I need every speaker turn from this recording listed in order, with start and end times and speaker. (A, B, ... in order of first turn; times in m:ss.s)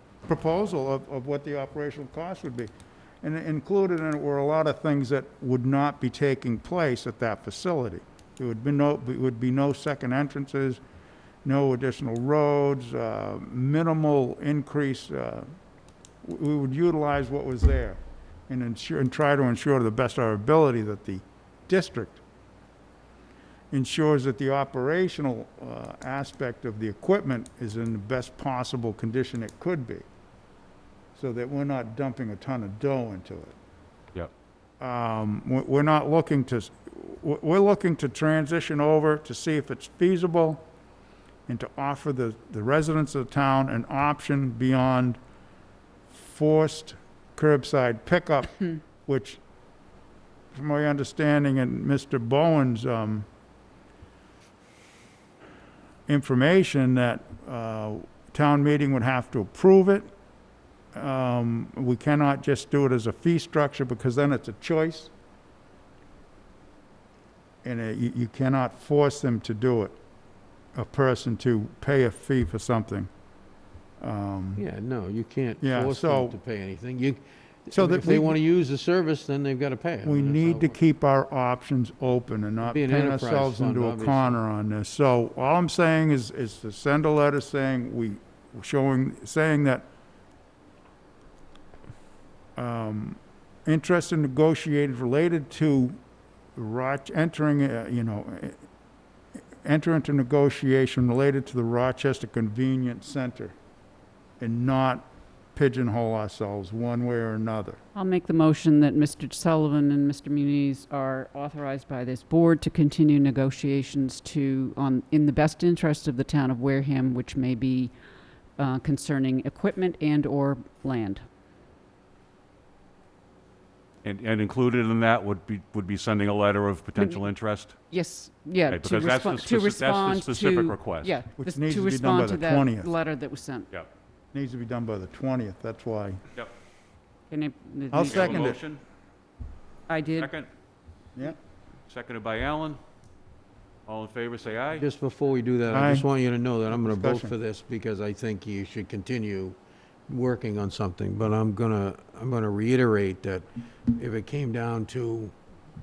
0:00.2-0:02.7 A
0:03.2-0:10.8 A
0:11.4-0:15.5 A
0:16.2-0:22.2 A
0:23.7-0:30.0 A
0:31.1-0:33.6 A
0:34.8-0:40.7 A
0:41.5-0:45.2 A
0:46.1-0:49.4 A
0:50.5-0:53.3 A
0:56.1-1:00.1 A
1:00.9-1:05.1 A
1:07.6-1:10.0 A
1:10.7-1:13.1 A
1:14.0-1:14.6 A
1:14.6-1:20.7 B
1:15.6-1:16.4 A
1:17.7-1:18.4 A
1:20.0-1:29.8 A
1:22.6-1:24.4 B
1:32.6-1:36.0 A
1:36.6-1:38.6 A
1:39.6-1:43.6 A
1:44.4-1:47.8 A
1:47.9-1:57.9 C
1:58.6-2:01.2 C
2:04.0-2:07.8 D
2:07.0-2:07.2 C
2:07.9-2:13.7 C
2:08.7-2:11.1 D
2:11.4-2:12.9 A
2:14.3-2:16.2 A
2:17.3-2:18.5 C
2:17.9-2:18.6 A
2:18.0-2:18.8 D
2:19.9-2:20.3 C
2:20.1-2:20.5 D
2:21.9-2:22.8 D
2:23.9-2:24.8 D
2:24.7-2:29.6 B
2:25.7-2:26.0 A
2:26.8-2:27.3 A
2:30.1-2:35.3 B